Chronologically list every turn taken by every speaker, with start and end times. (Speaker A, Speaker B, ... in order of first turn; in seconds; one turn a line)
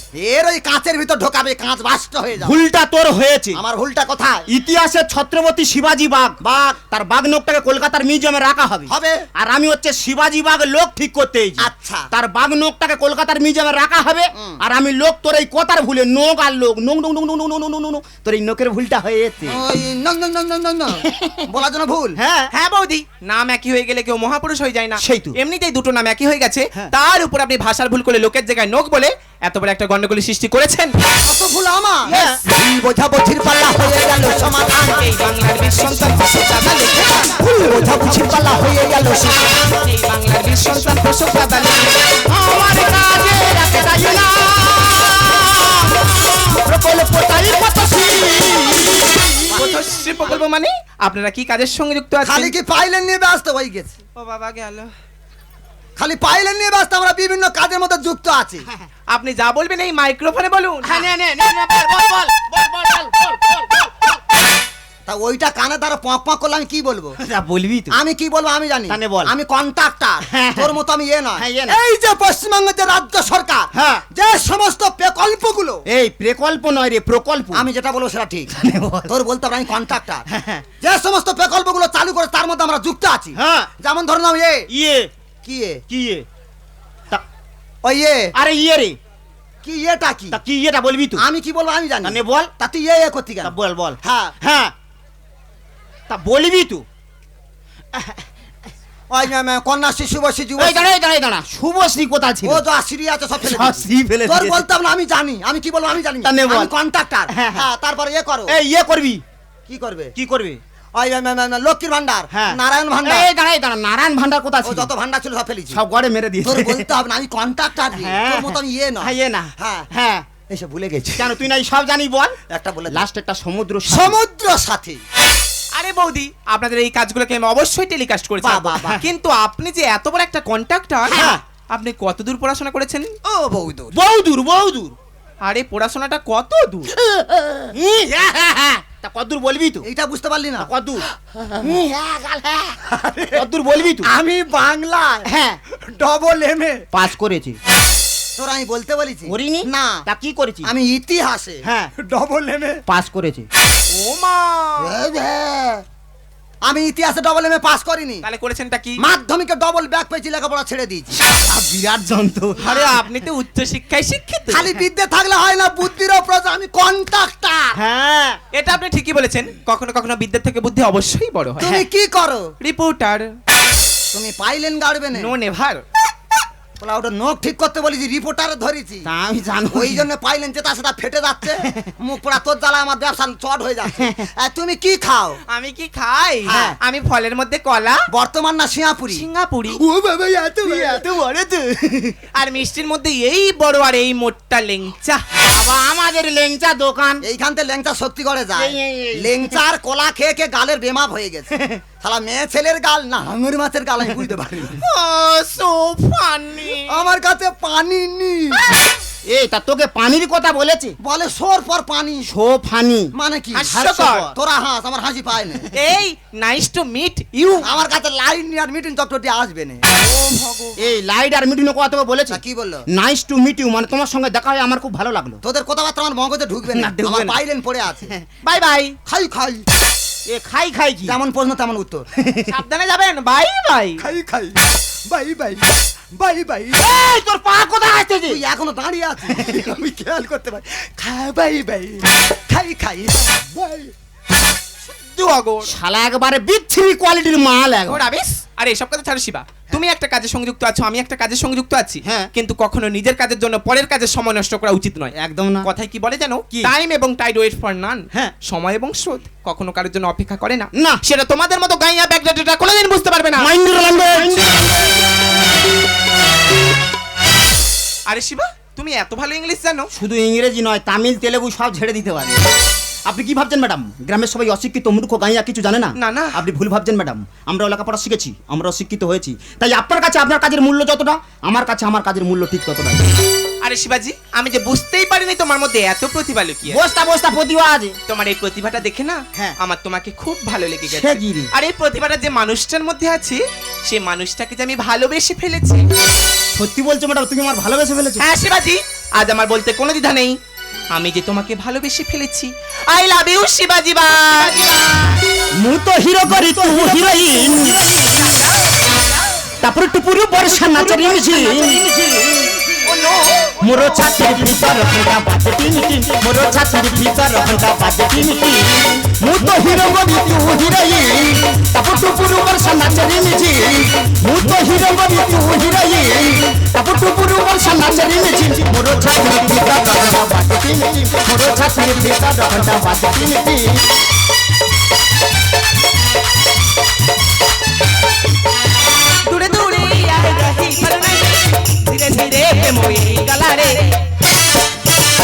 Speaker A: 0.2-2.6
Speaker B: 2.4-3.6
Speaker A: 3.5-4.5
Speaker B: 4.5-19.6
Speaker A: 8.9-9.3
Speaker A: 11.6-12.1
Speaker A: 14.3-14.6
Speaker A: 19.5-22.2
Speaker B: 21.0-21.5
Speaker B: 22.2-22.5
Speaker C: 22.5-30.9
Speaker B: 25.0-25.4
Speaker A: 31.2-35.2
Speaker B: 32.1-32.4
Speaker C: 32.1-32.4
Speaker C: 34.7-37.4
Speaker A: 37.0-39.6
Speaker B: 38.0-38.4
Speaker C: 39.8-42.2
Speaker B: 42.2-49.5
Speaker A: 49.5-49.8
Speaker C: 49.5-52.5
Speaker A: 52.2-53.9
Speaker C: 54.1-54.9
Speaker A: 56.0-58.6
Speaker C: 59.1-61.0
Speaker B: 60.8-64.2
Speaker A: 65.1-67.2
Speaker B: 67.2-68.0
Speaker A: 67.9-75.8
Speaker B: 68.9-69.3
Speaker B: 70.2-70.7
Speaker B: 71.4-71.8
Speaker B: 73.7-74.0
Speaker B: 75.9-77.7
Speaker A: 77.5-78.5
Speaker B: 78.5-79.1
Speaker A: 79.1-80.2
Speaker B: 80.3-80.7
Speaker A: 80.8-84.7
Speaker B: 83.3-83.7
Speaker B: 84.7-85.1
Speaker A: 85.4-85.8
Speaker B: 85.9-86.3
Speaker A: 87.8-88.3
Speaker B: 88.3-89.0
Speaker A: 89.6-90.4
Speaker B: 90.3-91.2
Speaker A: 91.2-94.3
Speaker B: 92.0-92.5
Speaker B: 93.4-94.7
Speaker B: 96.1-96.8
Speaker A: 99.1-100.9
Speaker B: 100.6-102.6
Speaker A: 102.5-108.5
Speaker B: 103.4-104.7
Speaker B: 106.2-106.7
Speaker B: 107.3-107.7
Speaker B: 108.5-109.2
Speaker A: 109.7-110.1
Speaker B: 110.2-110.6
Speaker A: 111.0-113.3
Speaker B: 112.3-114.9
Speaker A: 114.6-115.8
Speaker B: 115.7-116.9
Speaker A: 116.5-119.9
Speaker B: 117.9-120.3
Speaker A: 120.5-121.3
Speaker B: 121.2-122.3
Speaker A: 122.5-123.1
Speaker B: 122.9-124.2
Speaker A: 123.9-125.0
Speaker C: 125.8-133.1
Speaker A: 128.4-129.0
Speaker B: 131.1-131.4
Speaker A: 131.1-131.4
Speaker A: 133.2-134.0
Speaker B: 133.9-134.9
Speaker C: 135.5-136.9
Speaker A: 137.2-137.6
Speaker B: 137.7-139.8
Speaker A: 139.8-140.7
Speaker B: 140.6-141.1
Speaker A: 141.4-141.7
Speaker B: 141.6-142.8
Speaker A: 142.8-143.4
Speaker B: 143.3-144.1
Speaker A: 144.0-146.8
Speaker B: 145.2-145.6
Speaker B: 146.9-147.6
Speaker A: 148.4-150.0
Speaker B: 149.3-150.7
Speaker A: 150.6-152.8
Speaker B: 151.6-151.9
Speaker B: 152.9-153.5
Speaker C: 153.9-154.9
Speaker A: 154.8-155.8
Speaker A: 156.7-158.2
Speaker C: 158.2-159.0
Speaker A: 159.0-161.2
Speaker B: 161.2-162.7
Speaker C: 162.6-164.7
Speaker A: 164.5-167.8
Speaker B: 167.8-168.4
Speaker C: 168.5-171.7
Speaker A: 171.6-172.5
Speaker C: 172.6-173.3
Speaker A: 174.1-175.3
Speaker C: 175.2-175.8
Speaker A: 176.8-179.1
Speaker B: 179.1-180.1
Speaker A: 179.7-185.4
Speaker B: 184.0-184.2
Speaker C: 185.5-188.0
Speaker A: 186.5-186.8
Speaker B: 186.5-186.8
Speaker A: 188.1-189.2
Speaker C: 189.1-189.8
Speaker A: 189.8-191.0
Speaker B: 190.6-192.2
Speaker C: 192.3-195.2
Speaker B: 195.4-197.2
Speaker A: 197.2-204.8
Speaker B: 198.6-199.6
Speaker C: 204.8-207.1
Speaker A: 206.9-208.6
Speaker B: 209.3-210.9
Speaker A: 211.0-212.3
Speaker B: 212.3-213.1
Speaker A: 213.2-213.8
Speaker C: 213.6-214.3
Speaker B: 213.7-214.3
Speaker A: 214.3-215.7
Speaker C: 215.7-217.7
Speaker A: 217.6-220.0
Speaker C: 220.1-220.7
Speaker B: 220.8-225.4
Speaker A: 222.3-222.8
Speaker A: 225.4-228.1
Speaker B: 226.7-227.4
Speaker C: 228.4-229.0
Speaker A: 229.1-229.6
Speaker B: 230.3-231.2
Speaker A: 231.1-232.0
Speaker B: 232.2-232.5
Speaker C: 232.5-234.0
Speaker A: 234.0-236.9
Speaker B: 236.8-238.4
Speaker A: 238.3-243.9
Speaker B: 239.3-239.7
Speaker C: 244.9-245.7
Speaker B: 245.7-248.1
Speaker C: 247.9-255.1
Speaker B: 252.1-252.3
Speaker B: 255.2-255.7
Speaker C: 255.6-263.5
Speaker B: 260.7-261.0
Speaker B: 263.4-264.7
Speaker C: 264.2-264.6
Speaker C: 268.1-269.9
Speaker B: 269.9-272.4
Speaker B: 273.1-283.1
Speaker C: 276.0-276.4
Speaker C: 283.6-286.8
Speaker B: 286.7-287.9
Speaker C: 288.1-295.9
Speaker B: 290.9-291.5
Speaker B: 296.5-298.2
Speaker C: 298.2-300.4
Speaker C: 300.9-305.0
Speaker B: 305.6-307.8
Speaker C: 308.0-308.4
Speaker B: 309.6-311.9
Speaker A: 311.5-312.4
Speaker C: 312.9-313.2
Speaker B: 313.6-333.8
Speaker C: 339.3-343.9